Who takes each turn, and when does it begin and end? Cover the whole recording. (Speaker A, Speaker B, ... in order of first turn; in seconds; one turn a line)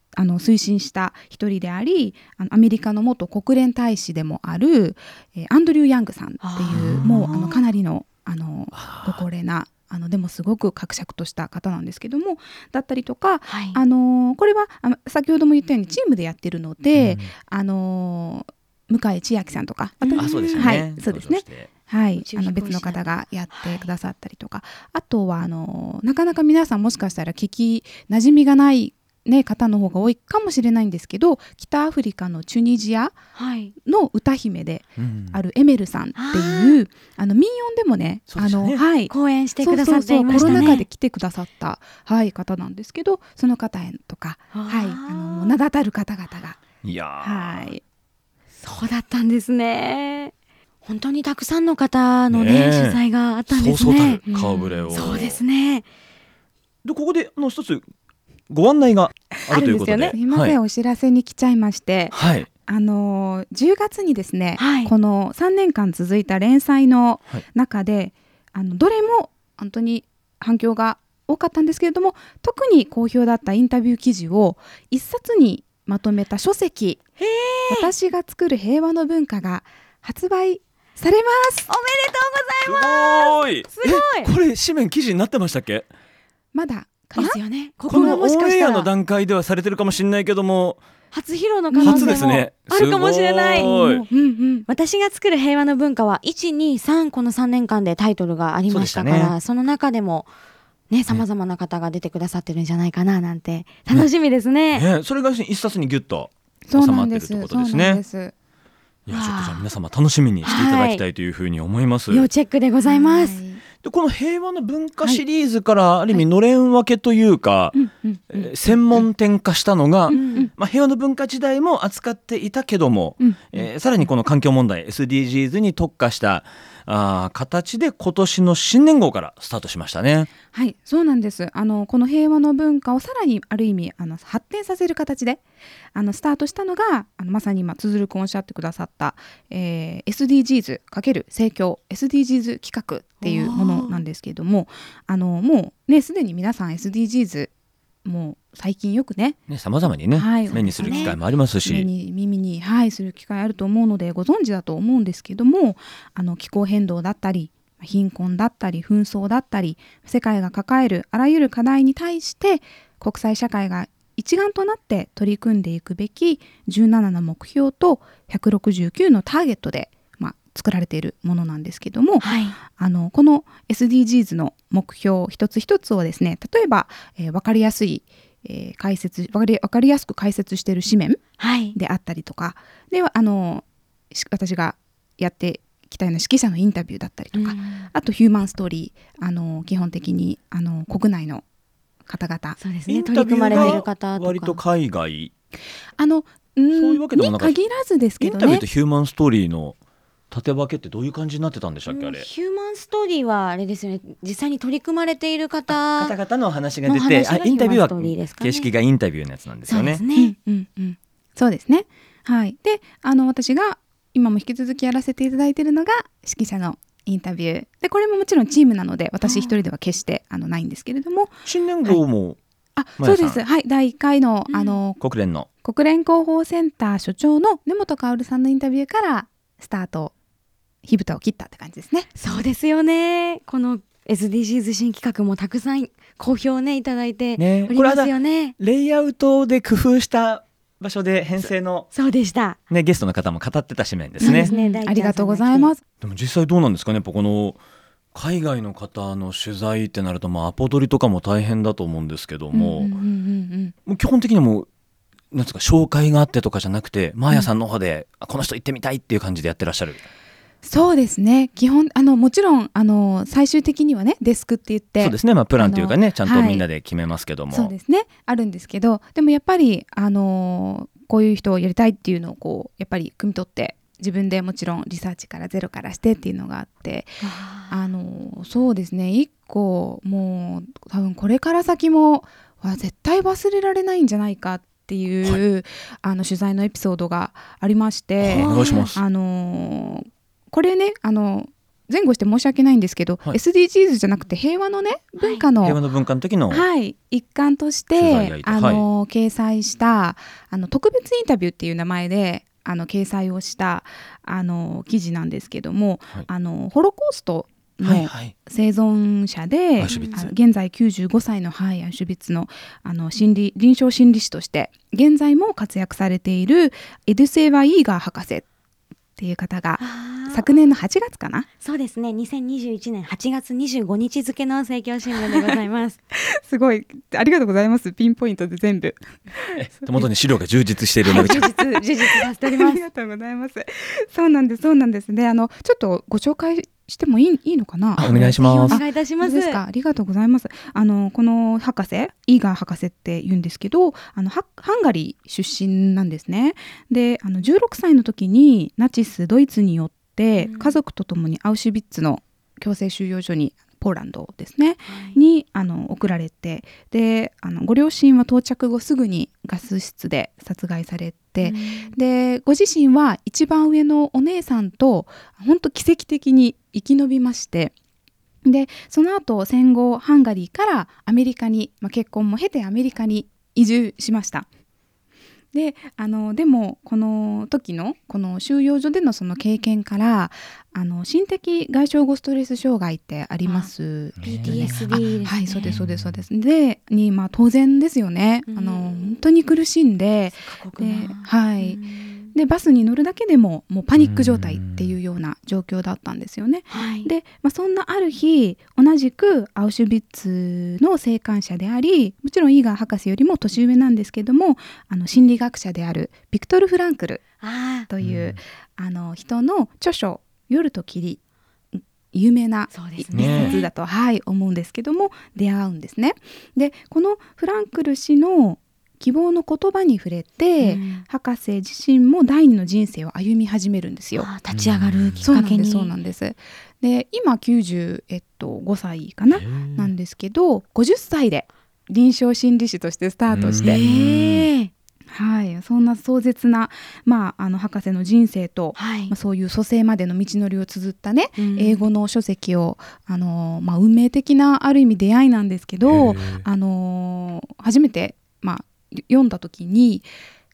Speaker A: 0.2-33.2
Speaker B: 6.4-7.6
Speaker C: 6.7-7.5
Speaker C: 8.7-9.2
Speaker B: 13.5-13.8
Speaker C: 16.9-17.3
Speaker B: 20.0-20.7
Speaker C: 20.1-21.7
Speaker B: 22.2-23.9
Speaker B: 33.4-33.7
Speaker A: 33.8-46.6
Speaker C: 35.0-35.4
Speaker B: 36.1-36.8
Speaker C: 38.3-38.8
Speaker B: 39.1-40.9
Speaker C: 40.3-40.8
Speaker B: 44.5-45.5
Speaker C: 46.8-47.7
Speaker A: 47.2-47.8
Speaker B: 48.6-50.3
Speaker B: 50.9-54.2
Speaker C: 52.3-55.4
Speaker A: 54.3-54.9
Speaker B: 54.9-55.9
Speaker C: 56.8-57.8
Speaker C: 58.5-60.6
Speaker B: 59.5-60.1
Speaker A: 59.5-77.0
Speaker C: 62.1-62.5
Speaker B: 64.6-64.9
Speaker B: 77.2-77.9
Speaker A: 77.7-81.7
Speaker B: 81.7-84.3
Speaker C: 82.6-85.9
Speaker A: 86.5-87.4
Speaker B: 87.2-88.9
Speaker C: 87.9-90.8
Speaker A: 87.9-88.2
Speaker B: 91.1-93.7
Speaker A: 91.7-92.2
Speaker C: 91.8-94.0
Speaker A: 93.5-94.7
Speaker B: 94.7-100.3
Speaker C: 98.7-99.3
Speaker B: 100.9-104.9
Speaker C: 104.7-108.0
Speaker A: 106.7-108.3
Speaker C: 109.1-112.3
Speaker B: 109.1-109.7
Speaker B: 110.4-111.0
Speaker B: 112.1-113.4
Speaker A: 112.9-113.6
Speaker C: 113.8-117.8
Speaker A: 117.7-119.0
Speaker C: 118.3-130.3
Speaker B: 120.1-120.5
Speaker A: 120.1-120.5
Speaker A: 123.2-123.7
Speaker A: 130.5-135.4
Speaker A: 135.9-147.5
Speaker B: 143.2-144.0
Speaker A: 148.1-149.4
Speaker C: 149.5-151.9
Speaker A: 150.1-181.2
Speaker B: 150.8-151.1
Speaker B: 172.2-172.6
Speaker B: 181.4-181.8
Speaker A: 181.7-191.4
Speaker B: 187.3-187.9
Speaker A: 192.1-192.6
Speaker B: 192.6-194.6
Speaker C: 192.9-195.3
Speaker A: 193.5-193.8
Speaker A: 196.0-198.7
Speaker C: 196.7-197.6
Speaker C: 198.2-199.8
Speaker C: 200.3-202.3
Speaker B: 201.9-206.2
Speaker C: 205.7-210.0
Speaker B: 206.9-208.7
Speaker B: 209.7-210.3
Speaker A: 210.2-221.3
Speaker B: 219.2-219.6
Speaker C: 221.5-222.4
Speaker A: 222.8-225.0
Speaker C: 223.0-223.4
Speaker B: 224.5-224.8
Speaker C: 225.0-225.5
Speaker A: 225.6-230.1
Speaker A: 230.8-232.1
Speaker B: 232.2-238.6
Speaker C: 237.4-241.9
Speaker B: 241.9-242.6
Speaker C: 242.7-244.5
Speaker B: 244.2-245.7
Speaker A: 244.2-245.8
Speaker C: 246.0-247.6
Speaker C: 248.1-252.9
Speaker A: 252.5-253.7
Speaker C: 253.9-254.7
Speaker C: 255.3-260.0
Speaker A: 260.6-266.6
Speaker C: 265.0-267.7
Speaker A: 267.5-295.8
Speaker B: 277.2-277.9
Speaker C: 288.2-289.0
Speaker B: 288.3-288.9
Speaker B: 295.2-295.5
Speaker C: 295.6-296.7
Speaker A: 296.5-318.4
Speaker C: 297.9-298.9
Speaker C: 307.8-308.4
Speaker C: 309.8-310.3
Speaker B: 309.9-310.3
Speaker A: 319.2-321.5
Speaker B: 319.8-320.6
Speaker B: 321.6-326.0
Speaker A: 325.2-325.6
Speaker A: 326.1-330.1
Speaker C: 329.6-331.5
Speaker B: 331.0-332.8
Speaker A: 331.1-367.7
Speaker C: 338.0-338.8
Speaker B: 338.1-339.6
Speaker B: 350.4-350.8
Speaker B: 354.9-355.2
Speaker B: 361.4-361.9
Speaker A: 368.4-374.5
Speaker A: 375.5-391.8
Speaker B: 383.4-383.7
Speaker C: 384.2-386.2
Speaker B: 384.2-385.8
Speaker B: 388.5-389.1
Speaker B: 390.4-392.3
Speaker A: 392.3-407.2
Speaker C: 394.0-394.9
Speaker B: 396.7-397.1
Speaker B: 407.4-407.9
Speaker A: 407.9-411.2
Speaker C: 408.0-408.4
Speaker A: 411.7-424.3
Speaker B: 412.7-413.7
Speaker C: 413.1-413.6
Speaker B: 420.6-421.1
Speaker B: 424.2-425.9
Speaker C: 424.5-425.3
Speaker A: 425.3-433.8
Speaker C: 429.3-429.9
Speaker C: 433.3-434.5
Speaker B: 433.6-434.7
Speaker A: 435.1-450.1
Speaker B: 438.8-439.1
Speaker B: 441.4-441.9
Speaker C: 445.9-446.4